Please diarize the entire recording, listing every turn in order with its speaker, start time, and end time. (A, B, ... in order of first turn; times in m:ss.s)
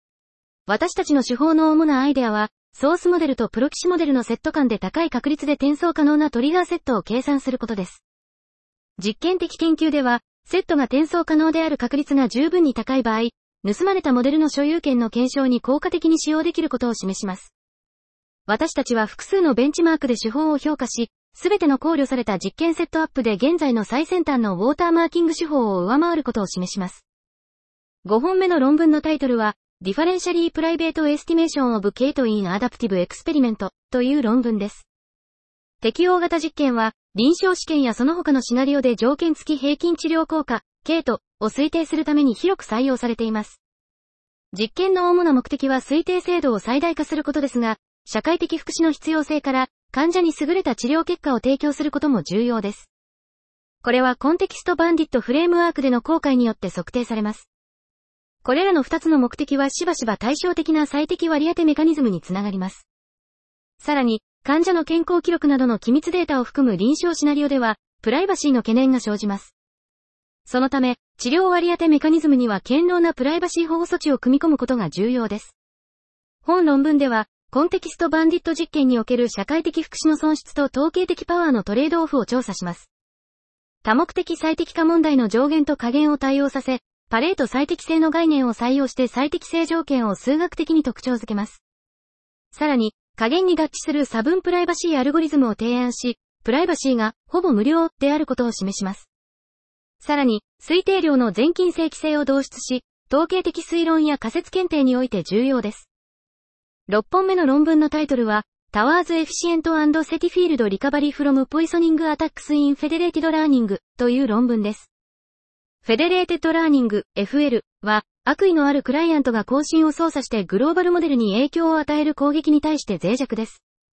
0:00.7-0:08.0 A
0:09.0-0:17.5 A
0:18.5-0:27.0 A
0:28.0-0:34.8 A
0:35.8-0:43.6 A
0:44.5-0:52.9 A
0:53.8-0:57.5 A
0:58.4-1:02.8 A
1:03.8-1:09.5 A
1:10.5-1:15.5 A
1:16.4-1:22.9 A
1:23.8-1:31.6 A
1:32.5-1:39.1 A
1:40.0-1:45.9 A
1:46.9-1:54.9 A
1:55.8-2:03.6 A